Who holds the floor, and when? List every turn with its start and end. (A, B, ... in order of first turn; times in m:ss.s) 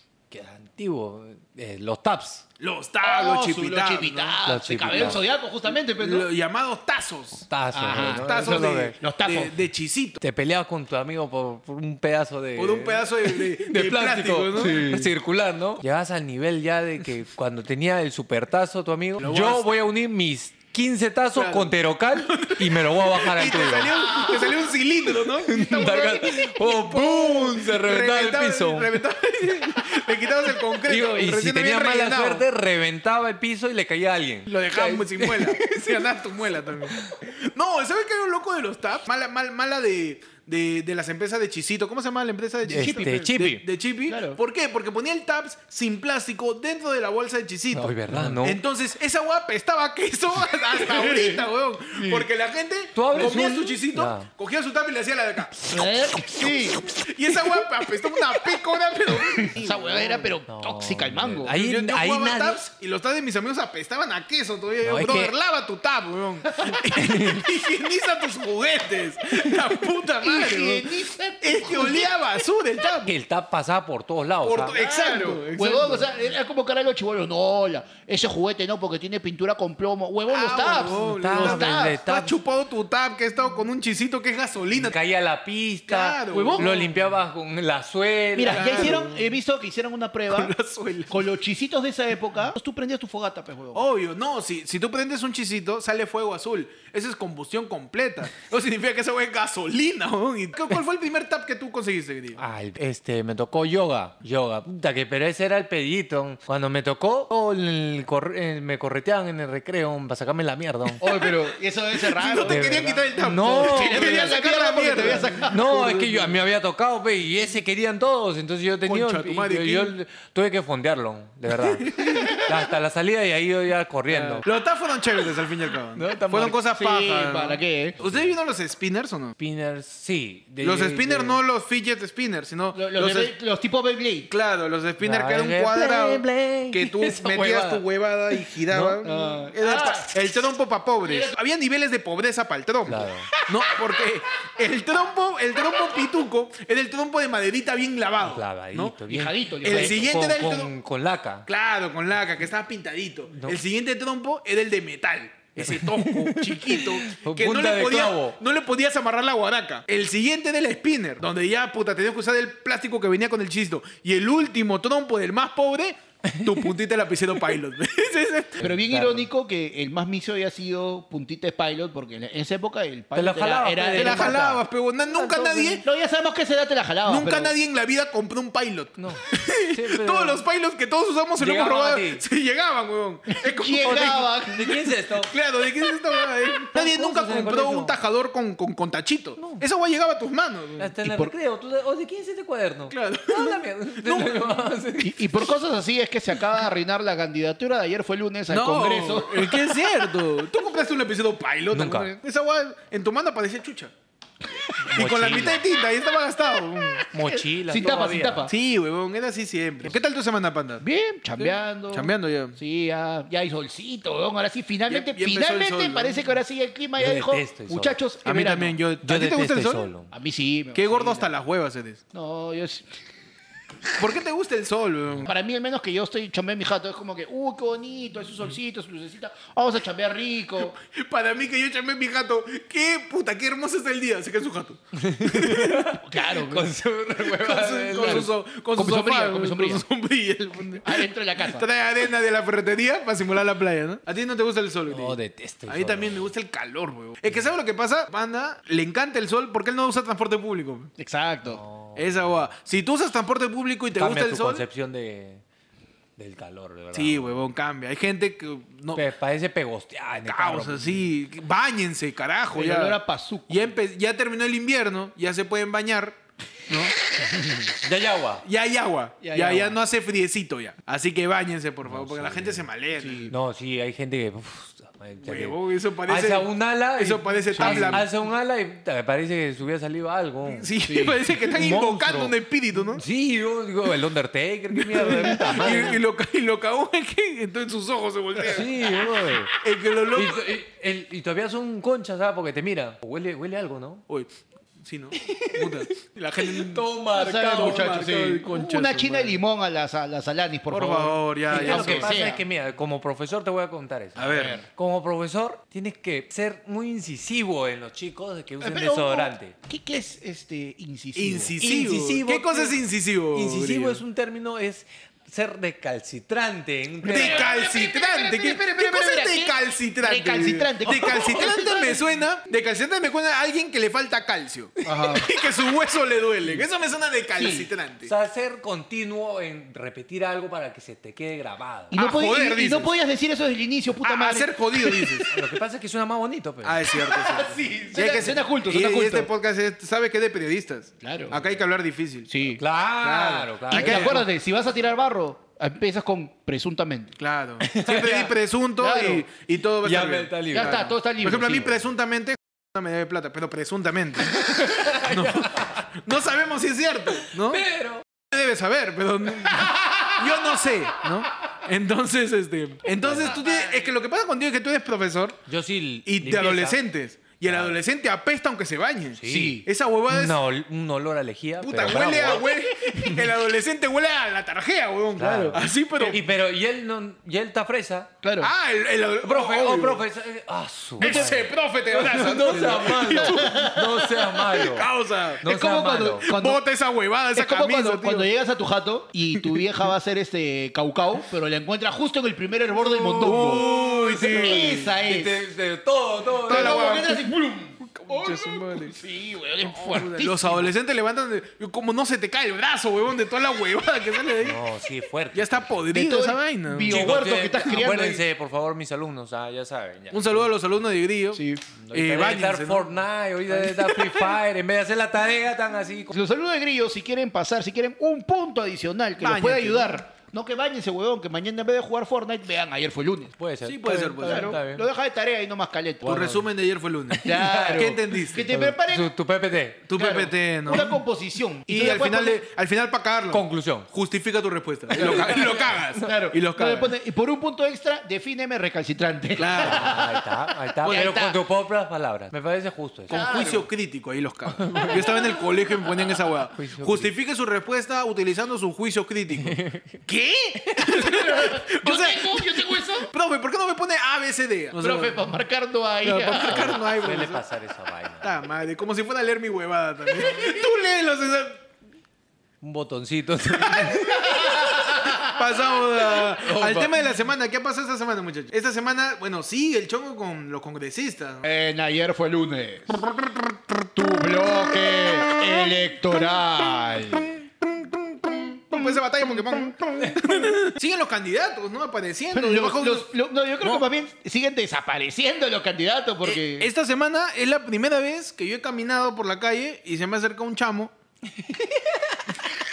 0:00.3-0:02.4 A
0:02.6-0:05.1 B
0:03.0-0:06.3 C
0:04.4-0:05.2 A
0:05.8-0:10.2 B
0:07.5-0:09.0 A
0:07.7-0:09.5 C
0:10.2-0:24.1 A
0:12.6-0:15.0 B
0:19.2-0:19.7 B
0:21.3-0:32.4 B
0:24.0-0:24.6 C
0:25.4-0:29.0 A
0:30.8-0:36.0 A
0:34.5-0:55.8 B
0:36.9-0:37.1 A
0:42.7-0:43.6 A
0:42.7-0:43.3 C
0:44.1-0:44.4 C
0:47.7-0:48.6 A
0:50.7-0:52.2 C
0:52.9-0:54.3 A
0:55.7-0:56.8 C
0:56.4-1:00.3 B
0:59.4-1:01.5 C
1:00.5-1:02.7 A
1:01.5-1:13.1 B
1:04.8-1:05.3 A
1:06.5-1:06.8 C
1:06.9-1:07.4 A
1:10.2-1:12.2 C
1:13.0-1:14.8 A
1:14.4-1:16.1 B
1:14.7-1:22.0 C
1:20.3-1:25.0 B
1:21.0-1:22.4 A
1:24.8-1:29.0 A
1:25.9-1:26.8 B
1:26.3-1:26.9 C
1:28.3-1:30.5 C
1:28.5-1:29.2 B
1:30.3-1:31.2 B
1:31.1-1:33.8 C
1:33.7-1:42.4 B
1:42.4-1:51.0 A
1:51.0-1:55.8 C
1:51.0-1:51.4 B
1:52.0-1:56.3 B
1:52.4-1:54.2 A
1:55.4-2:04.4 A
1:58.8-1:59.9 B
2:01.6-2:02.4 B
2:04.1-2:09.4 B
2:06.0-2:06.6 A
2:06.7-2:08.0 C
2:08.0-2:08.3 A
2:09.4-2:11.4 A
2:10.6-2:13.3 B
2:12.7-2:14.3 C
2:14.3-2:29.0 B
2:15.0-2:17.8 A
2:18.4-2:19.0 A
2:19.0-2:20.1 C
2:21.0-2:21.3 C
2:22.8-2:23.3 A
2:28.2-2:31.4 A
2:29.1-2:30.1 C
2:29.6-2:30.7 B
2:31.4-2:48.6 B
2:33.3-2:33.6 A
2:35.6-2:38.4 A
2:46.3-2:46.6 A
2:48.6-2:54.5 C
2:48.6-2:49.2 A
2:53.1-2:55.8 A
2:53.9-2:55.8 B
2:55.8-2:57.5 C
2:57.0-3:04.3 B
2:59.0-3:00.4 A
3:01.4-3:02.2 A
3:03.3-3:04.9 C
3:03.8-3:05.3 A
3:05.2-3:10.9 B
3:06.7-3:07.9 A
3:09.4-3:09.6 A
3:10.8-3:15.4 A
3:11.0-3:11.3 C
3:12.9-3:14.7 B
3:15.0-3:20.1 C
3:18.5-3:23.9 B
3:21.7-3:22.1 A
3:24.8-3:25.6 A
3:24.9-3:27.1 B
3:27.1-3:28.5 A
3:27.6-3:28.5 C
3:28.5-3:30.8 B
3:30.8-3:38.8 C
3:31.4-3:32.6 B
3:34.9-3:36.2 B
3:37.0-3:38.0 A
3:38.2-3:39.9 B
3:39.0-3:40.1 A
3:40.1-3:41.3 C
3:40.7-3:42.0 B
3:42.1-3:42.9 C
3:44.0-3:45.3 B
3:45.2-3:50.7 C
3:50.7-3:55.9 B
3:54.9-3:58.3 A
3:56.0-3:56.7 C
3:57.2-4:10.9 B
3:57.9-3:59.8 C
4:00.8-4:01.6 C
4:04.9-4:06.3 A
4:11.0-4:11.6 C
4:11.5-4:12.2 A
4:12.0-4:14.6 B
4:14.0-4:15.4 A
4:16.2-4:17.4 A
4:16.9-4:19.0 B
4:18.9-4:21.1 A
4:20.2-4:23.0 B
4:22.5-4:23.7 C
4:23.5-4:26.2 B
4:26.7-4:26.9 B
4:27.2-4:28.4 A
4:28.4-4:33.3 B
4:29.2-4:29.8 C
4:31.8-4:32.6 A
4:33.0-4:33.3 C
4:33.3-4:40.7 A
4:35.2-4:38.0 B
4:37.5-4:38.0 C
4:40.4-4:43.0 B
4:40.8-4:41.2 C
4:41.5-4:42.3 A
4:43.0-4:46.0 A
4:44.8-4:48.8 B
4:45.4-4:45.7 C
4:48.4-4:49.6 A
4:49.6-4:50.6 B
4:50.1-4:54.0 A
4:54.8-4:56.8 B
4:55.1-4:55.8 A
4:56.4-4:58.4 A
4:57.1-5:02.4 C
4:57.5-4:59.4 B
5:00.7-5:02.2 B
5:01.5-5:09.5 A
5:04.2-5:04.6 B
5:04.2-5:04.6 C
5:08.6-5:11.6 C
5:11.2-5:14.0 B
5:11.6-5:12.8 A
5:13.3-5:17.5 A
5:17.0-5:22.0 C
5:17.0-5:28.1 B
5:24.8-5:25.3 C
5:27.4-5:27.7 C
5:28.0-5:32.0 A
5:31.9-5:35.3 C
5:31.9-5:32.9 B
5:34.0-5:35.3 B
5:35.3-5:36.8 A
5:36.6-5:42.4 B
5:36.9-5:39.3 C
5:41.0-5:41.4 C
5:42.3-5:42.6 C
5:42.6-5:44.2 A
5:43.0-5:44.2 B
5:43.7-5:47.1 C
5:47.2-5:57.6 B
5:47.6-5:48.3 A
5:48.8-5:49.2 C
5:49.8-5:50.9 A
5:50.5-5:51.8 C
5:54.3-5:55.8 A
5:57.3-5:58.0 A
5:58.3-6:05.4 B
5:59.4-6:00.7 C
6:03.0-6:03.4 A
6:03.2-6:03.9 C
6:05.5-6:06.8 A
6:06.0-6:10.4 B
6:07.5-6:07.8 A
6:09.2-6:12.4 A
6:09.3-6:09.6 C
6:11.6-6:16.2 B
6:15.2-6:18.1 A
6:18.2-6:18.5 C
6:18.4-6:20.0 B
6:19.2-6:24.9 A
6:21.0-6:23.8 B
6:21.0-6:21.3 C
6:22.5-6:24.1 C
6:24.3-6:25.4 B
6:25.4-6:26.3 A
6:25.4-6:26.6 C
6:26.2-6:28.3 B
6:27.3-6:35.3 C
6:29.3-6:29.7 B
6:32.9-6:34.8 B
6:34.2-6:37.0 A
6:36.5-6:37.3 B
6:36.5-6:40.7 C
6:37.8-6:39.0 B
6:39.6-6:44.6 B
6:44.4-6:45.8 A
6:45.3-6:47.1 B
6:45.9-6:48.2 C
6:46.8-6:50.5 A
6:50.1-6:52.9 B
6:51.3-6:51.6 C
6:51.8-6:56.1 A
6:53.5-6:54.4 B
6:56.1-7:03.4 C
6:59.2-6:59.9 B
7:03.4-7:04.8 A
7:03.6-7:04.6 B
7:04.2-7:06.4 C
7:06.0-7:08.5 B
7:07.1-7:09.8 A
7:07.2-7:09.1 C
7:09.9-7:11.0 B
7:09.9-7:12.4 C
7:11.7-7:16.9 B
7:13.3-7:13.9 A
7:15.0-7:16.1 A
7:15.0-7:15.4 C
7:16.0-7:20.1 C
7:19.4-7:20.0 B
7:19.6-7:23.2 A
7:20.8-7:21.4 C
7:23.1-7:35.2 B
7:23.1-7:23.7 C
7:24.6-7:25.2 A
7:24.9-7:25.3 C
7:26.5-7:27.1 A
7:29.4-7:30.0 A
7:30.8-7:33.1 C
7:34.7-7:36.8 C
7:36.0-7:37.4 B
7:36.4-7:38.4 A
7:38.2-7:41.6 B
7:42.6-7:44.4 A
7:43.7-7:51.4 B
7:43.8-7:45.4 C
7:46.4-7:46.9 A
7:51.4-7:53.0 C
7:53.8-7:57.4 C
7:57.8-8:03.1 B
7:58.2-7:59.6 C
8:02.3-8:06.7 C
8:06.2-8:10.9 B
8:11.4-8:12.2 A